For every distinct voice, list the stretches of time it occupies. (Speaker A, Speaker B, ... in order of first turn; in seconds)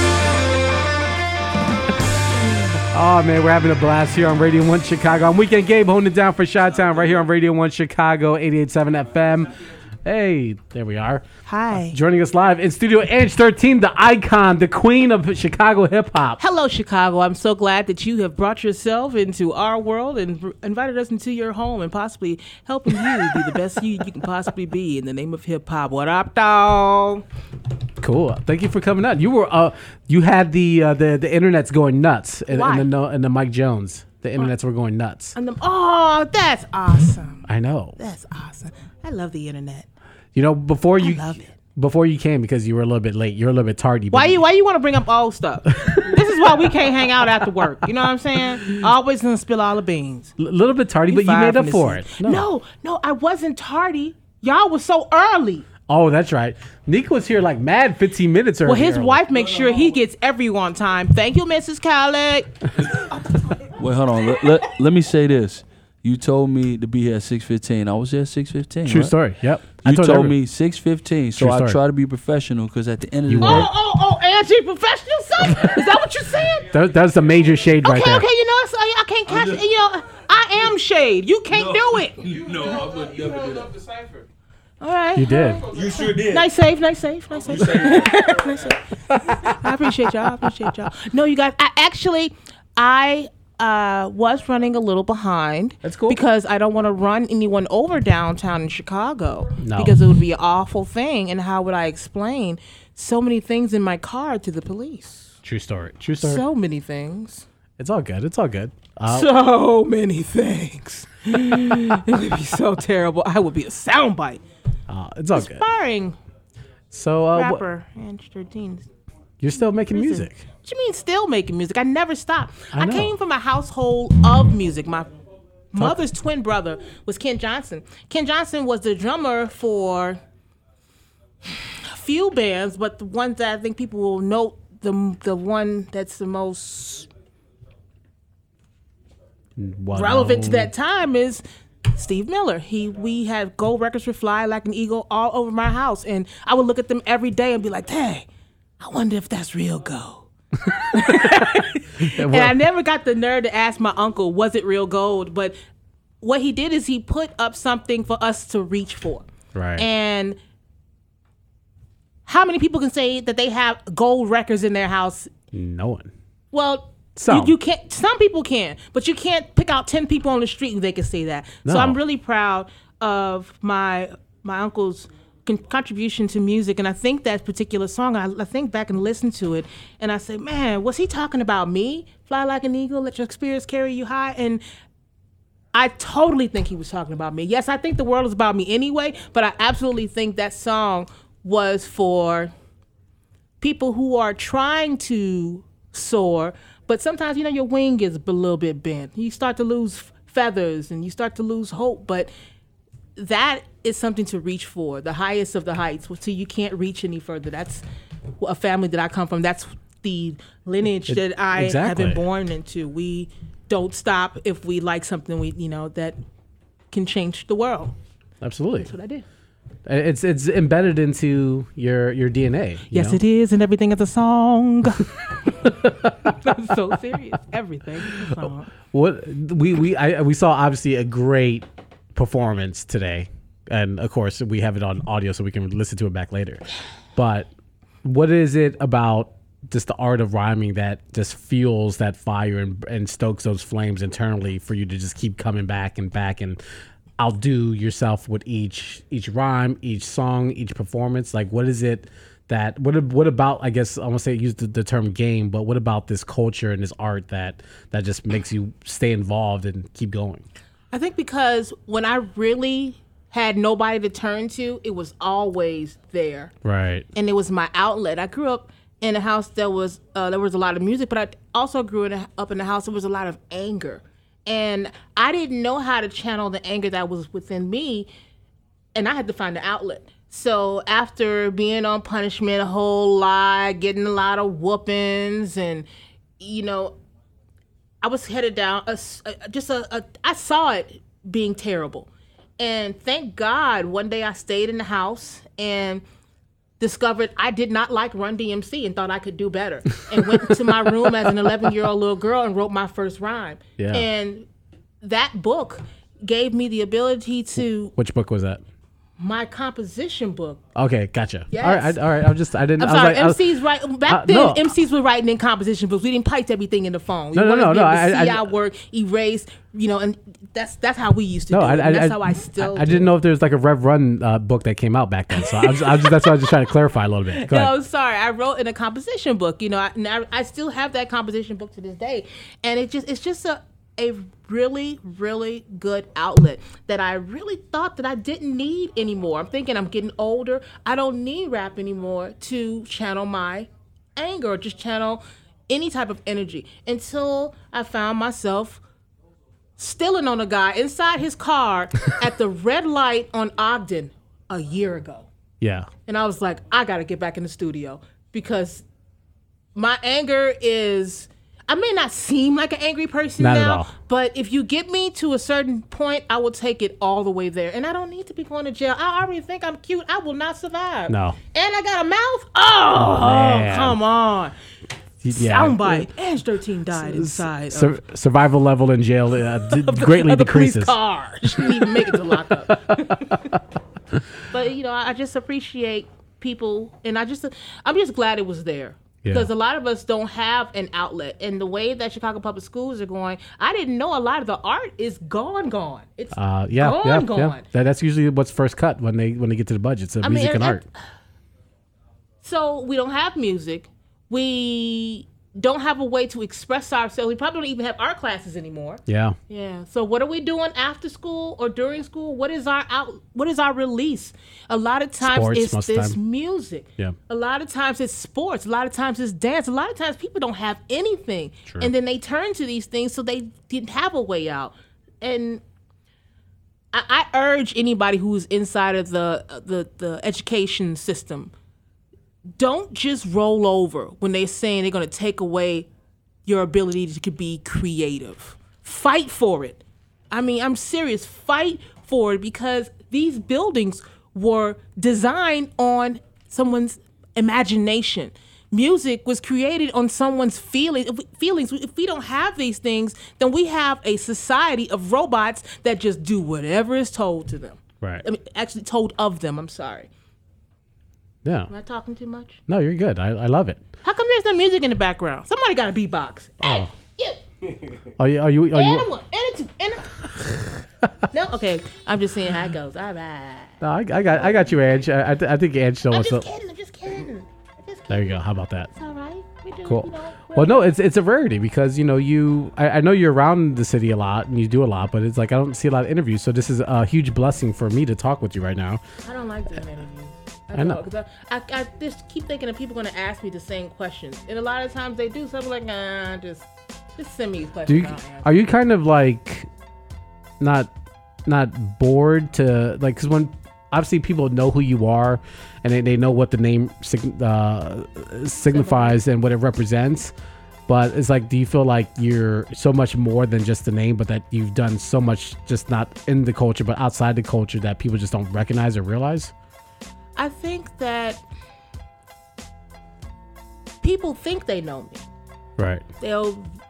Speaker A: 2.9-16.4, 28.0-35.4, 37.4-38.0, 40.3-44.4, 45.7-46.7, 50.4-52.5, 55.9-59.2, 68.8-70.4, 71.3-71.8, 73.2-73.7, 76.7-78.3, 85.1-85.7, 95.8-96.2, 99.6-100.0, 105.4-106.4, 107.8-109.3, 114.9-115.6, 116.9-117.6, 119.4-120.4, 122.7-123.1, 125.8-126.0, 139.6-140.7, 151.1-151.4, 152.0-152.6, 159.5-159.9, 165.5-166.1, 167.2-167.6, 171.6-172.0, 211.1-212.2, 218.4-218.9, 219.8-223.2, 228.9-236.6, 237.2-237.5, 238.0-246.6, 247.2-260.4, 266.6-267.1, 301.0-301.5, 303.8-304.1, 307.9-308.6, 310.7-313.4, 314.0-314.7, 317.3-318.5, 321.5-327.8, 355.6-355.9, 363.4-363.9, 371.1-371.4, 372.9-374.0, 375.2-376.1, 376.9-383.6, 389.2-389.5, 396.3-400.8, 409.1-409.4, 415.2-416.2, 461.4-461.7, 462.7-463.8, 466.6-466.9, 468.2-469.1, 473.8-476.4, 478.1-478.9, 479.8-489.0, 490.7-491.0, 497.9-499.7, 500.6-500.9, 501.4-510.3, 510.9-519.5, 525.8-526.0
Speaker B: 11.5-12.0, 16.4-27.2, 32.5-32.9, 35.4-37.5, 38.0-39.9, 41.0-41.5, 44.1-50.3, 51.1-55.6, 58.6-62.5, 73.4-76.7, 77.8-83.0, 84.8-105.3, 106.2-107.4, 109.1-114.4, 115.3-116.2, 117.3-118.8, 119.9-125.1, 125.7-130.2, 131.6-137.1, 139.9-141.4, 141.9-148.2, 148.8-155.6, 156.2-159.2, 159.8-160.4, 162.3-165.3, 166.5-184.6, 185.7-192.5, 193.6-202.3, 203.2-207.8, 208.4-216.2, 216.9-217.9, 218.8-219.2, 222.9-225.0, 226.4-228.7, 260.9-266.5, 267.1-278.1, 278.9-285.9, 286.4-286.9, 288.0-292.1, 292.6-296.0, 296.8-304.4, 305.0-307.9, 309.2-310.6, 311.5-312.0, 312.8-323.1, 325.4-326.4, 327.3-348.8, 349.8-355.2, 356.1-358.8, 359.8-374.5, 375.3-378.0, 379.7-383.1, 384.5-397.6, 400.2-400.8, 402.4-424.7, 425.2-425.6, 426.9-431.5, 432.6-435.8, 436.5-439.7, 440.3-457.7, 458.3-460.1, 461.7-462.5, 464.0-467.4, 468.7-470.0, 471.3-473.7, 476.1-478.3, 479.0-480.8, 489.3-496.6, 497.2-498.4, 508.7-509.1, 520.4-521.4, 524.0-525.2, 526.2-526.6
Speaker C: 63.7-69.3, 69.8-73.7